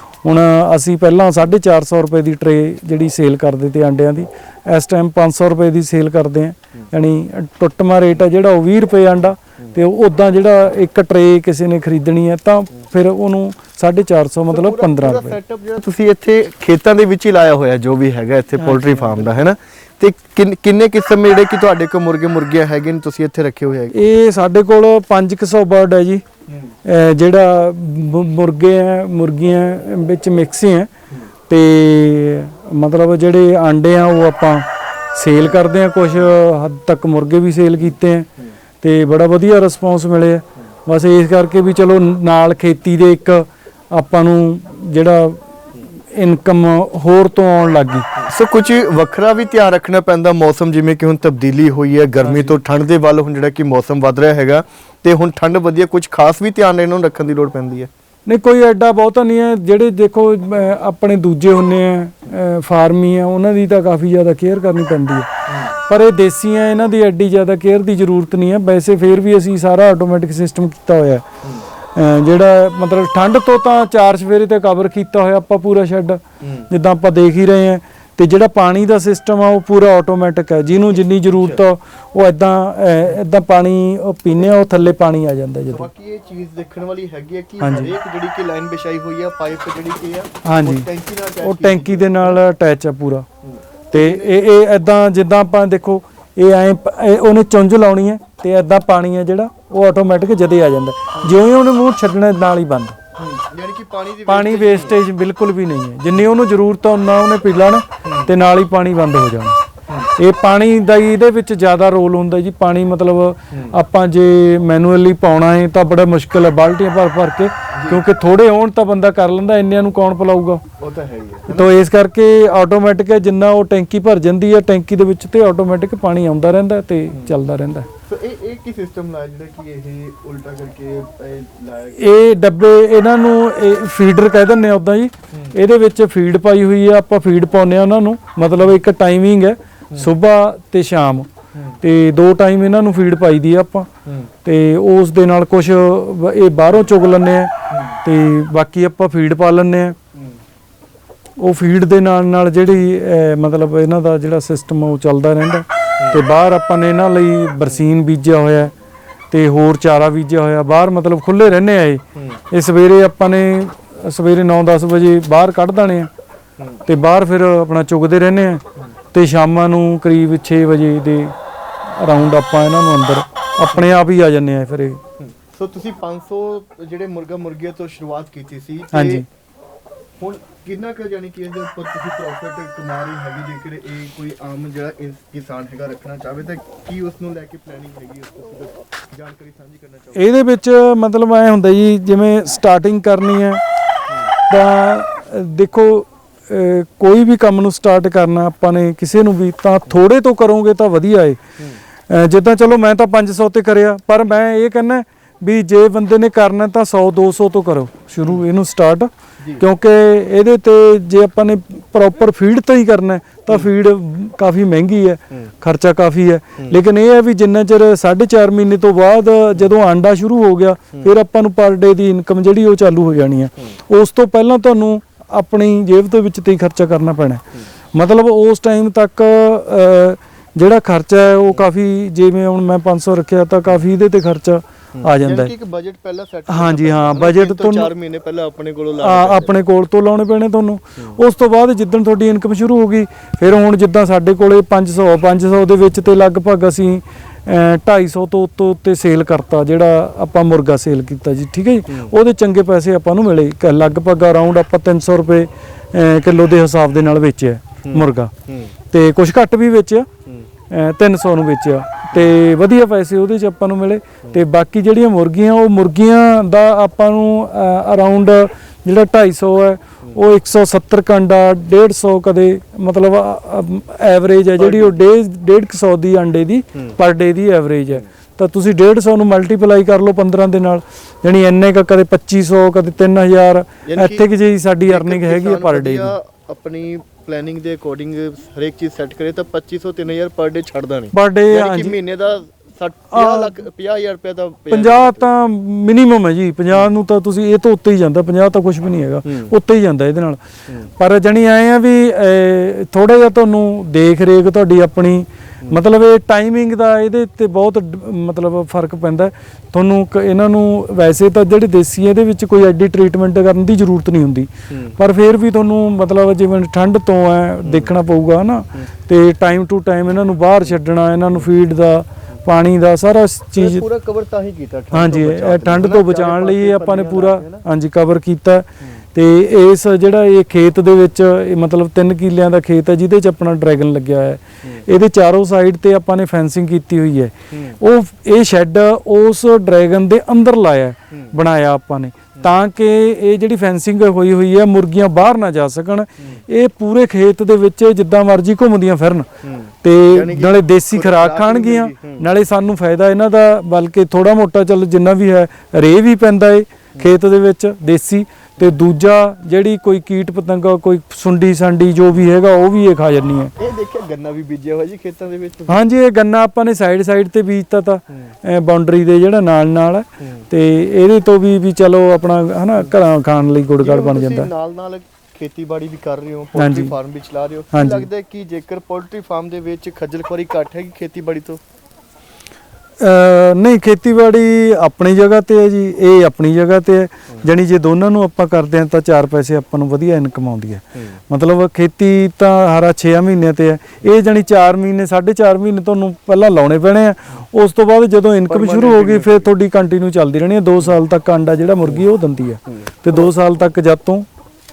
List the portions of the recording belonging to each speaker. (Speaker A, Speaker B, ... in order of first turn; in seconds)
Speaker A: 0.2-15.4, 18.6-19.5, 23.9-26.2, 26.8-30.9, 31.5-38.3, 38.8-45.4, 46.1-48.1, 52.2-52.6, 58.3-65.3, 65.9-71.2, 72.0-85.9, 87.6-87.9, 90.5-90.9, 91.4-93.3, 93.9-103.0, 104.3-109.6, 110.2-120.6, 121.5-127.9, 132.0-141.3, 141.8-143.9, 144.4-147.5, 148.0-150.0, 151.4-158.7, 159.3-166.1, 166.9-171.3, 172.0-175.0, 178.9-179.3, 190.2-193.6, 194.5-201.4, 202.1-227.4, 227.9-235.5, 236.5-237.9, 239.0-258.3, 258.9-260.1, 260.7-286.1, 291.1-292.0, 293.1-293.5, 294.7-300.4, 301.0-323.9, 324.9-349.3, 349.8-363.5, 365.7-374.5, 376.6-376.9, 377.7-378.1, 383.0-404.3
Speaker B: 14.5-24.0, 48.2-57.9, 65.5-65.7, 76.4-76.7, 80.9-81.6, 84.4-84.7, 85.7-92.4, 93.4-94.5, 103.2-105.0, 108.0-108.3, 117.7-118.0, 120.8-121.8, 127.1-127.4, 128.1-132.3, 135.3-135.6, 141.5-141.8, 144.1-144.3, 147.7-148.0, 156.0-156.2, 162.2-162.4, 166.6-166.8, 175.2-179.2, 180.2-190.3, 209.4-209.7, 235.0-239.6, 251.9-252.1, 257.8-258.7, 274.6-275.0, 283.9-284.3, 284.9-295.3, 299.2-299.5, 314.7-315.0, 317.6-317.9, 323.6-327.6, 337.5-337.8, 349.4-352.3, 363.6-365.8, 370.2-370.5, 373.8-381.6, 390.9-391.2, 398.5-399.5